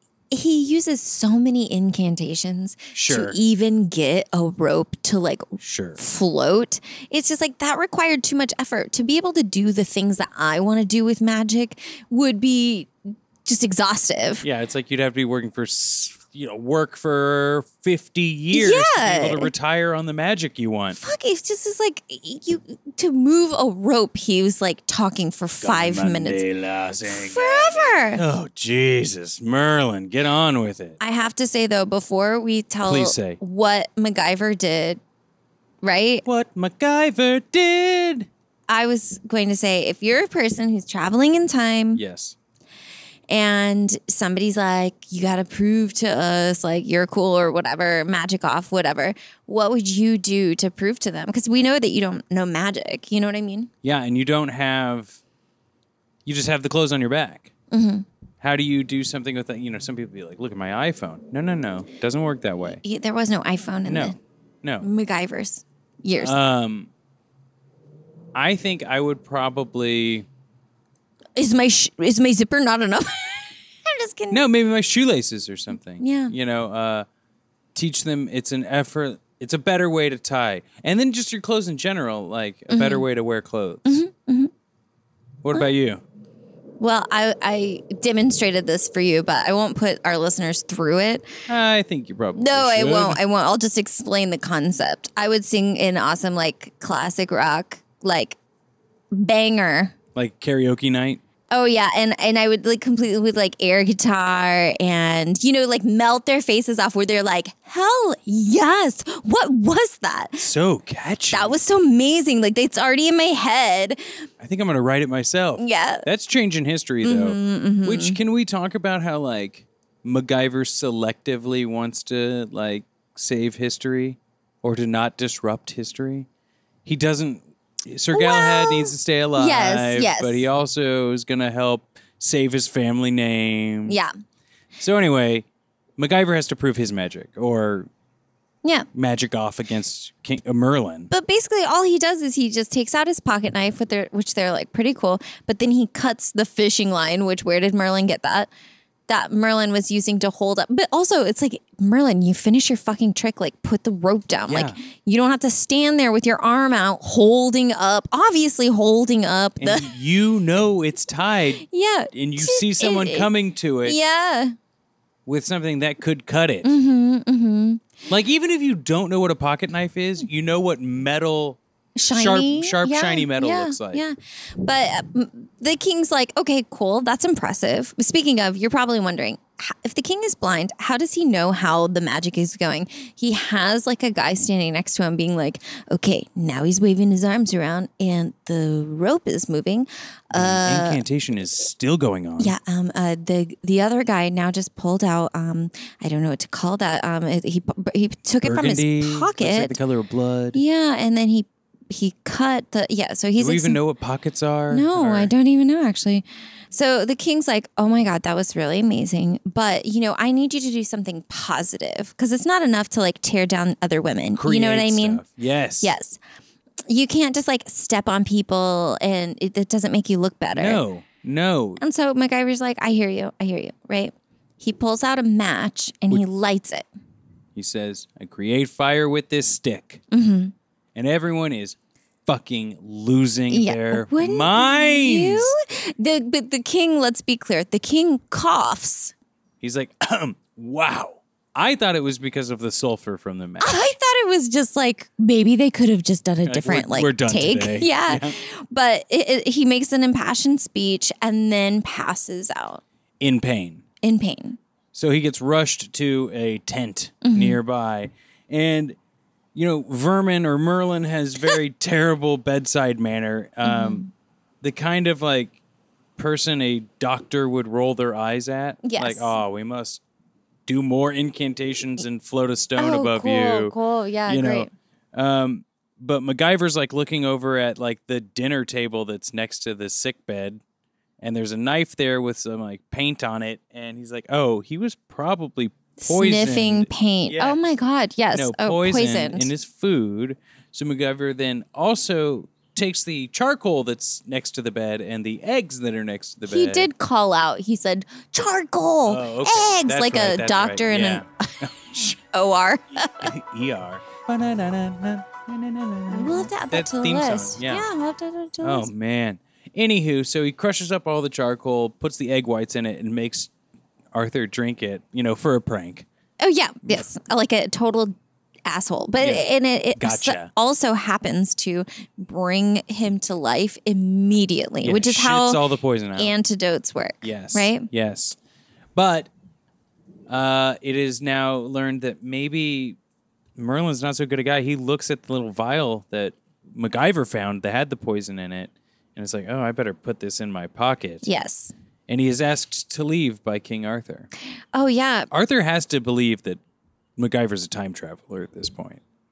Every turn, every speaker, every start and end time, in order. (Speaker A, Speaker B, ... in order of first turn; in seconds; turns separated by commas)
Speaker A: 0.3-12.9, Speaker B: 2.9-3.4, Speaker B: 5.6-6.0, Speaker A: 13.4-14.4, Speaker B: 14.4-21.0, Speaker A: 18.5-19.5, Speaker A: 20.9-26.4, Speaker B: 25.6-31.0, Speaker A: 27.1-28.2, Speaker A: 31.0-35.0, Speaker B: 32.8-33.4, Speaker A: 35.8-36.2, Speaker B: 36.2-38.3, Speaker A: 38.7-42.0, Speaker B: 41.9-42.3, Speaker A: 43.3-53.7, Speaker B: 53.8-55.2, Speaker B: 56.2-57.5, Speaker A: 57.7-58.0, Speaker B: 58.4-62.8, Speaker A: 62.8-64.2, Speaker B: 63.9-64.8, Speaker A: 64.8-66.3, Speaker B: 66.2-66.9, Speaker B: 68.3-70.2, Speaker A: 71.3-74.4, Speaker B: 74.3-77.1, Speaker A: 76.0-76.3, Speaker B: 77.7-84.0, Speaker A: 82.7-83.0, Speaker A: 83.8-84.5, Speaker B: 85.4-86.0, Speaker A: 86.8-91.3, Speaker B: 91.5-93.2, Speaker A: 92.3-98.4, Speaker A: 99.1-99.9, Speaker B: 100.1-101.2, Speaker A: 101.5-110.5, Speaker B: 110.4-111.5, Speaker A: 111.3-114.2, Speaker B: 114.4-126.3, Speaker A: 115.6-116.1, Speaker A: 117.0-118.2, Speaker B: 126.8-134.0, Speaker A: 128.1-130.4, Speaker A: 133.9-134.1, Speaker B: 134.8-135.4, Speaker B: 136.0-137.9, Speaker B: 138.9-141.1, Speaker A: 141.1-148.5, Speaker A: 149.1-159.9, Speaker B: 154.5-154.8, Speaker B: 159.6-164.0, Speaker A: 161.6-163.3, Speaker A: 163.8-164.5, Speaker B: 165.2-166.7, Speaker A: 166.6-167.9, Speaker B: 168.1-171.6, Speaker A: 172.0-191.0, Speaker B: 172.1-174.0, Speaker B: 190.3-192.6, Speaker A: 192.4-199.7, Speaker B: 198.4-200.6, Speaker A: 200.5-203.8, Speaker B: 203.4-205.3, Speaker A: 204.7-215.2, Speaker B: 214.3-215.9, Speaker A: 215.8-216.2, Speaker A: 216.9-220.8, Speaker B: 220.5-221.8, Speaker A: 221.8-226.9, Speaker B: 227.5-230.0, Speaker A: 230.1-230.5, Speaker B: 230.9-235.5, Speaker A: 233.5-239.1, Speaker B: 239.6-243.8, Speaker A: 243.6-252.8, Speaker B: 246.4-248.4, Speaker B: 253.2-253.8, Speaker A: 254.0-254.6, Speaker B: 254.9-258.9, Speaker A: 257.2-257.6, Speaker B: 259.5-264.0, Speaker A: 263.6-264.1, Speaker B: 264.6-265.5, Speaker B: 266.2-270.0, Speaker A: 268.8-269.4, Speaker B: 270.6-273.7, Speaker A: 272.8-274.7, Speaker B: 274.2-280.6, Speaker B: 281.2-287.8, Speaker A: 286.0-289.5, Speaker B: 288.3-296.9, Speaker A: 296.4-303.3, Speaker B: 299.1-302.1, Speaker B: 303.2-307.9, Speaker A: 306.1-308.9, Speaker B: 308.6-313.5, Speaker B: 314.1-316.1, Speaker A: 316.4-318.1, Speaker A: 318.6-325.6, Speaker B: 319.2-320.5, Speaker B: 324.8-326.3, Speaker A: 326.2-327.9, Speaker B: 327.2-328.4, Speaker B: 328.9-329.3, Speaker B: 330.3-333.0, Speaker B: 333.6-341.3, Speaker A: 341.2-341.7, Speaker B: 342.1-344.3, Speaker A: 344.7-345.3, Speaker B: 345.3-346.6, Speaker B: 347.2-349.0